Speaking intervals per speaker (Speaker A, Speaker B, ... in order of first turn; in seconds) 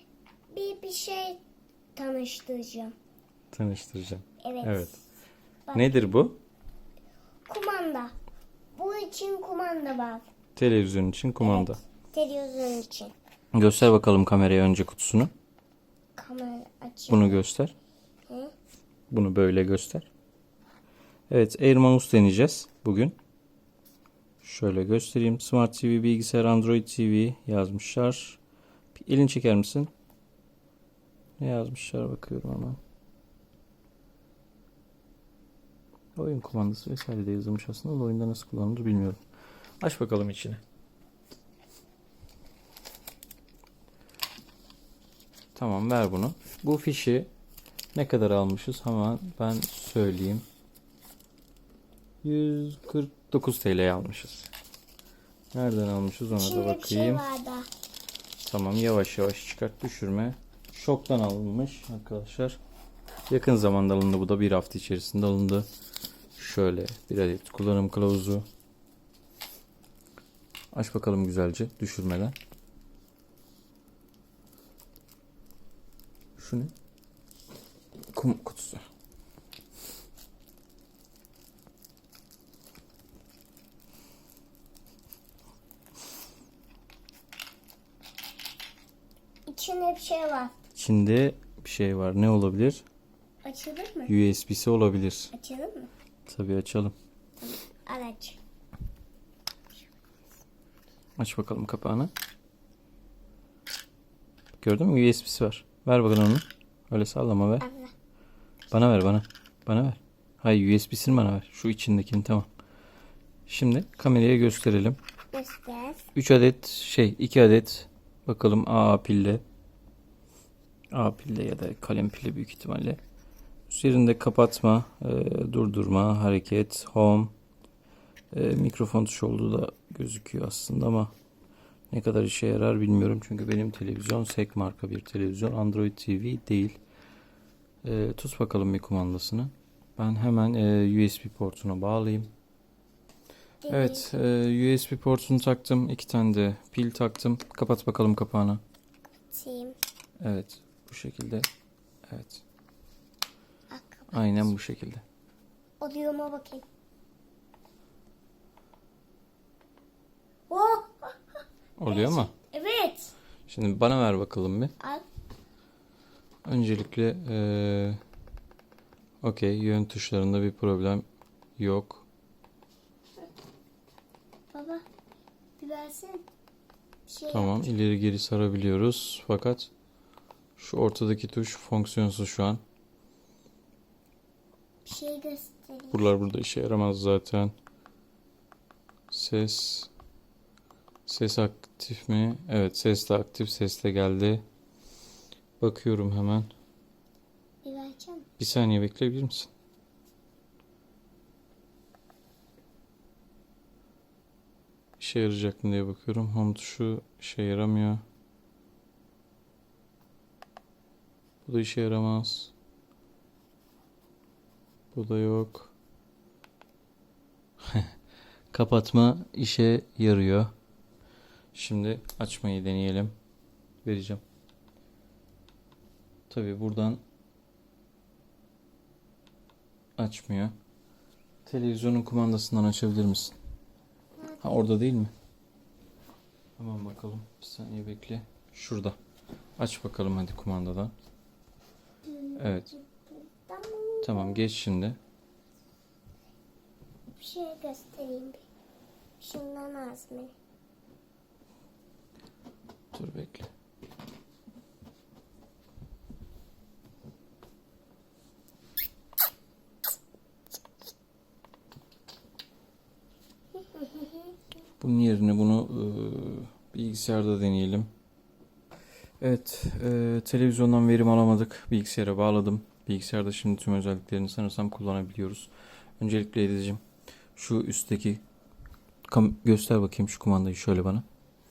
Speaker A: 0.5-1.4, 1.9-2.9, 4.4-5.0, 5.7-6.0, 7.5-8.1, 8.7-10.2, 11.4-13.1, 16.1-17.4, 56.3-57.7, 89.5-90.5, 93.4-94.1, 95.3-95.9, 97.4-98.4, 107.6-107.9, 115.3-116.0, 143.6-144.2, 149.3-149.8, 153.7-154.4, 155.8-156.6, 160.5-161.2, 161.9-163.1, 174.5-174.8, 175.6-176.3, 177.1-177.6, 184.8-186.1, 197.6-198.3, 234.2-234.7, 242.0-244.4, 247.2-248.4, 249.2-250.3
Speaker B: 3.5-5.0, 5.7-6.4, 10.6-11.8, 13.5-15.3, 17.1-17.7, 19.1-20.1, 21.3-23.1, 24.4-28.4, 28.9-29.9, 31.4-32.8, 36.1-39.2, 39.8-40.6, 45.5-47.3, 47.9-50.4, 52.2-54.5, 55.5-57.2, 58.4-62.6, 63.3-65.7, 66.3-68.5, 70.7-72.3, 76.4-76.7, 78.1-78.8, 90.7-92.8, 94.1-95.3, 96.3-96.9, 101.2-102.1, 104.6-107.7, 108.7-112.5, 113.5-115.0, 116.1-119.4, 120.9-123.0, 123.7-127.3, 128.3-131.1, 131.9-136.8, 137.8-142.3, 143.7-148.6, 150.2-151.4, 152.1-152.4, 154.1-155.0, 161.8-162.3, 163.5-164.7, 166.4-168.0, 169.2-171.0, 171.6-172.1, 177.3-179.7, 180.6-182.6, 185.9-187.5, 189.1-189.9, 191.1-194.4, 195.6-196.5, 198.4-199.5, 205.0-208.0, 211.4-212.5, 214.9-215.7, 217.7-217.9, 218.5-220.5, 221.5-223.1, 223.8-224.2, 226.3-227.0, 230.0-230.5, 231.4-233.3, 234.4-235.1, 236.6-238.9, 239.6-240.9, 242.4-242.7, 244.0-245.0, 252.9-253.5, 264.8-267.9, 269.2-276.8, 277.4-278.2, 279.1-281.0